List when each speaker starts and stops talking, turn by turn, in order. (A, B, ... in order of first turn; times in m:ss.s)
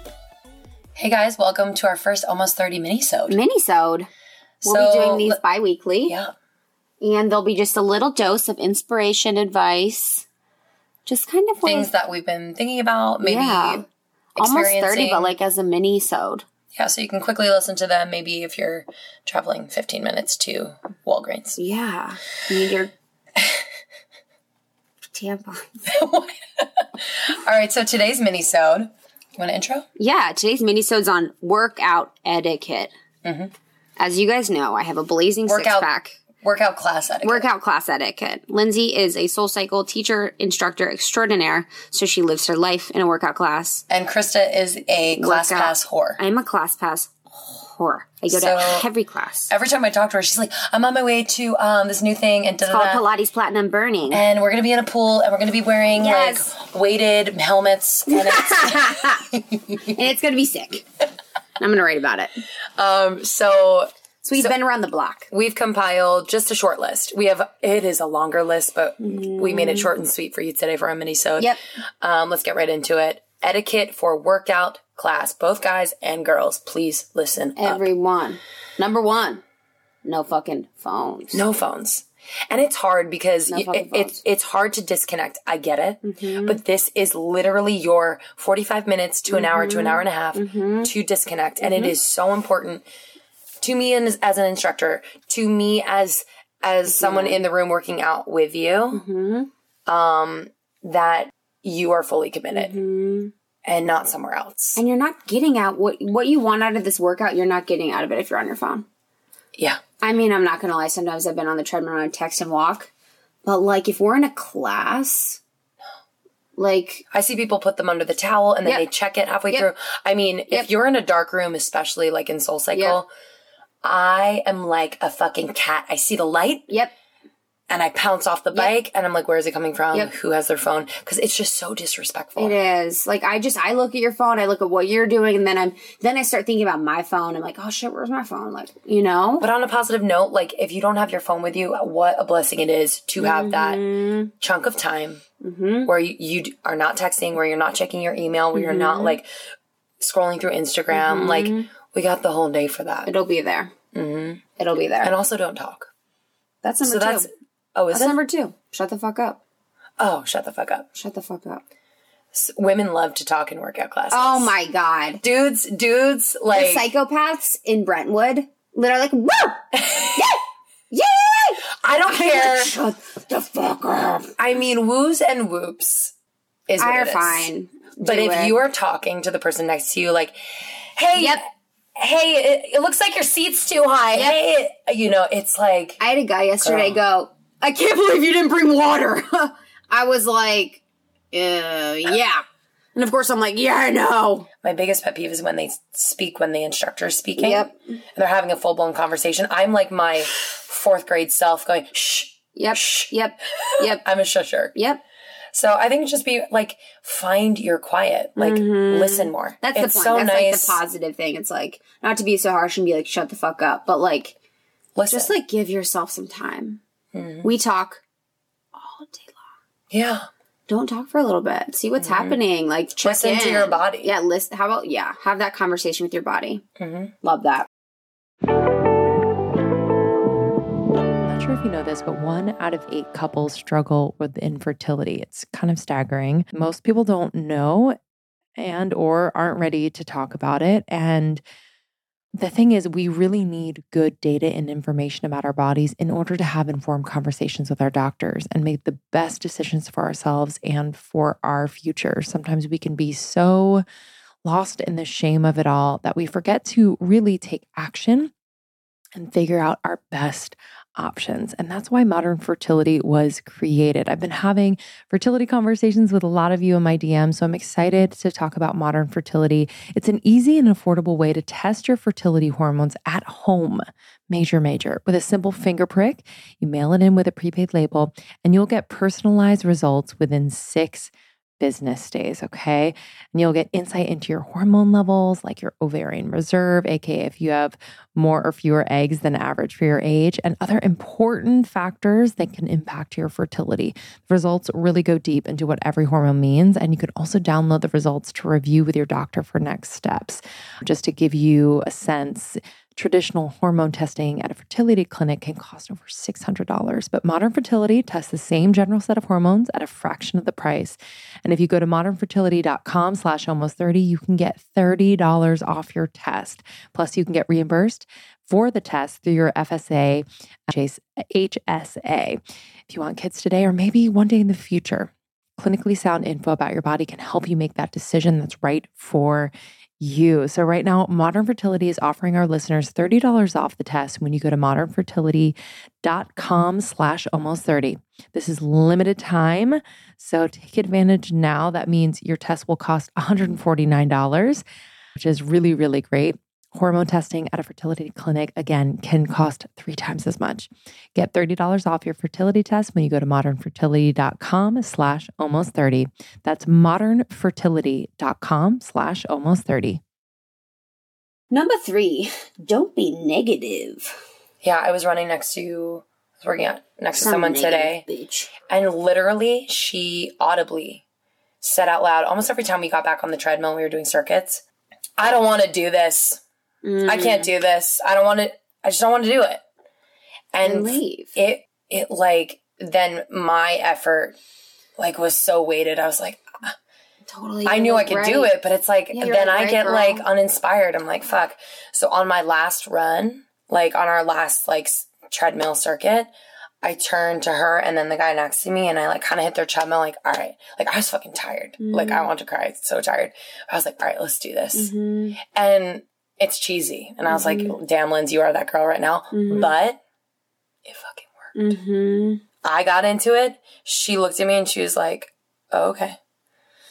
0:01.0-0:03.4 A
0:03.3-0:04.1 B
0:04.6-0:05.4 A
0:04.6-0:06.2 B
0:06.1-0:06.3 A
0:07.0-0:10.3 B
0:11.0-0:11.9 B
0:11.6-0:13.8 A
0:13.2-0:13.9 B
0:14.4-0:15.3 A
0:14.4-0:16.4 B
0:16.8-0:21.6 A
0:21.6-0:22.9 B
0:25.1-0:25.8 B
0:25.9-0:29.9 A
0:30.0-0:32.9 B
0:33.2-0:33.5 A
0:34.0-0:36.2 B
0:35.5-0:35.9 A
0:36.4-0:37.5 A
0:37.2-0:43.8 B
0:43.9-0:46.2 A
0:45.2-0:49.5 B
0:48.3-0:48.9 A
0:49.5-0:53.0 A
0:52.6-0:54.2 B
0:54.1-0:59.8 A
0:56.0-0:56.5 B
0:58.1-0:59.2 B
0:59.8-1:00.8 B
1:01.6-1:02.4 B
1:02.8-1:04.6 A
1:04.2-1:05.3 B
1:05.3-1:17.9 A
1:09.0-1:09.9 B
1:17.6-1:19.4 B
1:20.0-1:21.4 B
1:21.3-1:32.8 A
1:23.5-1:24.2 B
1:26.0-1:26.6 B
1:29.3-1:30.9 B
1:31.6-1:31.9 B
1:33.6-1:39.0 A
1:36.8-1:37.4 B
1:38.9-1:39.5 B
1:39.9-1:42.8 A
1:42.5-1:43.3 B
1:43.7-1:44.8 A
1:44.8-1:48.9 B
1:50.0-1:52.9 B
1:53.4-1:55.4 B
1:56.6-1:57.0 B
1:57.1-2:03.1 A
2:02.7-2:03.0 B
2:03.8-2:06.7 A
2:07.7-2:12.6 A
2:12.4-2:19.5 B
2:19.4-2:23.8 A
2:23.2-2:24.3 B
2:24.4-2:25.2 A
2:25.4-2:25.9 B
2:25.8-2:29.3 A
2:28.5-2:29.2 B
2:30.0-2:33.1 A
2:30.9-2:31.7 B
2:33.0-2:33.7 B
2:33.9-2:34.4 A
2:34.6-2:35.2 B
2:35.0-2:35.9 A
2:36.6-2:37.3 B
2:36.8-2:38.2 A
2:37.9-2:39.4 B
2:40.0-2:40.9 A
2:40.9-2:41.6 B
2:42.3-2:44.5 A
2:44.1-2:45.2 B
2:45.2-2:46.9 A
2:46.5-2:54.4 B
2:49.8-2:50.2 A
2:51.8-2:52.7 A
2:54.4-2:56.1 A
2:56.7-2:57.5 A
2:56.8-2:58.6 B
2:58.0-3:01.4 A
3:01.1-3:01.4 B
3:02.0-3:06.0 A
3:04.1-3:04.4 B
3:06.0-3:12.4 B
3:06.6-3:07.0 A
3:13.0-3:14.5 B
3:14.6-3:24.8 A
3:17.4-3:17.8 B
3:22.6-3:24.0 B
3:24.7-3:25.0 B
3:25.5-3:30.8 A
3:28.4-3:34.4 B
3:35.0-3:35.3 A
3:35.1-3:36.8 B
3:37.1-3:37.5 A
3:37.4-3:38.0 B
3:38.7-3:39.4 B
3:39.9-3:40.3 A
3:40.7-3:46.6 B
3:42.0-3:42.4 A
3:43.0-3:44.1 A
3:46.8-3:47.1 A
3:47.2-3:47.7 B
3:51.2-3:58.0 C
3:58.6-4:01.4 C
4:02.4-4:13.8 C
4:14.4-4:18.3 C
4:19.2-5:44.6 C
5:45.2-6:00.0 C
6:01.5-6:04.2 B
6:04.6-6:08.0 A
6:07.2-6:08.5 B
6:08.7-6:11.0 A
6:11.6-6:14.6 A
6:15.2-6:16.4 A
6:16.8-6:17.5 B
6:17.0-6:19.6 A
6:20.5-6:24.4 A
6:20.6-6:21.4 B
6:25.0-6:26.7 A
6:27.3-6:28.5 B
6:27.6-6:36.3 A
6:29.1-6:30.2 B
6:36.8-6:44.9 A
6:41.8-6:42.3 B
6:44.8-6:45.4 B
6:45.4-6:50.0 A
6:47.3-6:47.8 B
6:49.3-6:49.7 B
6:50.9-6:51.6 A
6:51.6-6:52.4 B
6:52.6-6:56.2 A